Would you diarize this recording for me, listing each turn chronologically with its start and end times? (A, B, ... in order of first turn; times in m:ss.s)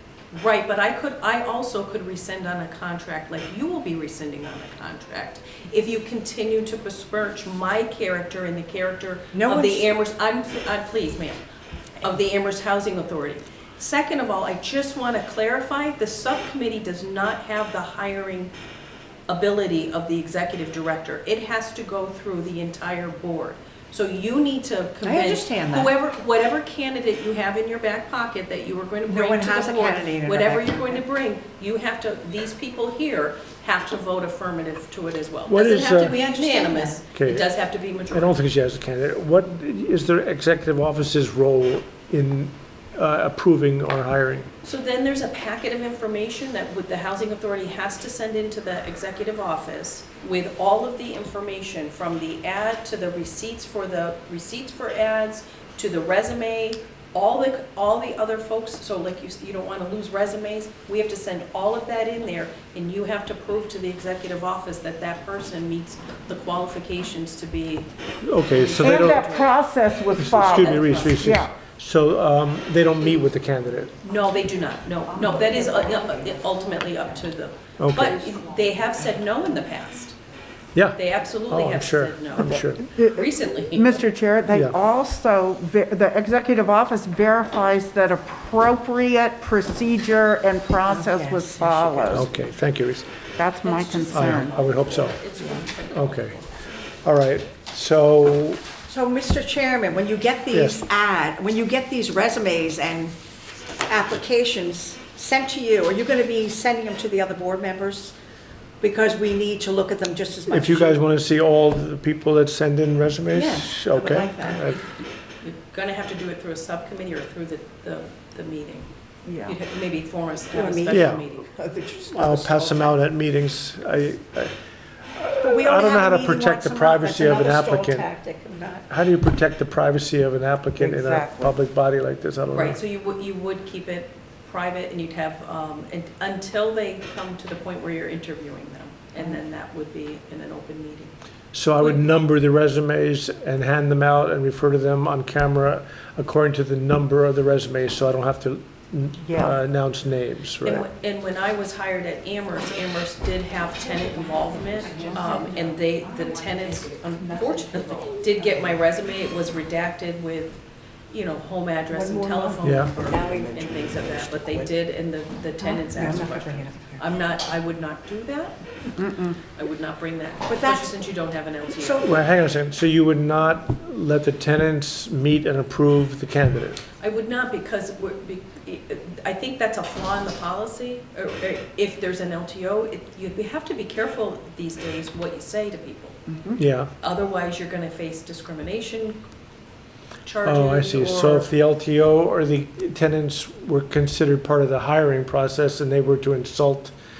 0:00.3-0:11.4 A
0:09.3-0:09.9 B
0:12.0-0:18.5 A
0:19.3-0:38.4 A
0:25.0-0:25.9 B
0:29.1-0:31.0 B
0:35.5-0:36.2 C
0:35.7-0:37.0 B
0:37.1-0:37.5 C
0:38.1-0:44.5 C
0:44.6-1:07.9 A
1:08.2-1:09.2 C
1:08.5-1:09.6 A
1:08.8-1:11.5 D
1:10.1-1:11.4 A
1:10.2-1:13.9 C
1:14.0-1:20.1 A
1:15.2-1:16.2 B
1:17.8-1:18.2 C
1:20.7-1:22.8 C
1:21.0-1:24.0 A
1:22.9-1:32.3 D
1:24.5-1:24.7 C
1:30.8-1:32.4 B
1:32.1-1:33.1 C
1:33.4-1:34.5 D
1:33.6-1:36.7 A
1:34.1-1:35.2 C
1:35.9-1:36.3 C
1:37.0-1:38.6 C
1:38.9-1:43.1 B
1:40.5-1:40.8 C
1:43.8-1:48.1 B
1:48.8-1:51.0 B
1:50.5-1:54.8 C
1:53.3-1:54.8 B
1:55.4-1:58.9 A
1:59.4-2:01.4 A
2:00.5-2:03.0 B
2:00.9-2:01.2 C
2:02.1-2:04.5 C
2:05.2-2:08.0 C
2:05.4-2:08.9 B
2:08.9-2:12.8 C
2:10.8-2:11.5 D
2:12.5-2:21.1 A
2:21.5-2:30.8 C
2:29.2-2:29.5 D
2:30.6-2:40.6 A
2:34.8-2:35.9 B
2:37.3-2:38.0 B
2:41.1-2:52.1 A
2:42.0-2:44.7 B
2:42.6-2:42.9 C
2:45.8-2:47.0 B
2:49.0-2:49.3 D
2:50.5-2:50.9 B
2:51.8-2:52.2 B
2:52.0-2:56.8 C
2:57.0-3:06.3 A
3:06.6-3:06.9 C
3:07.0-3:09.2 A
3:10.2-3:11.5 A
3:10.4-3:16.9 C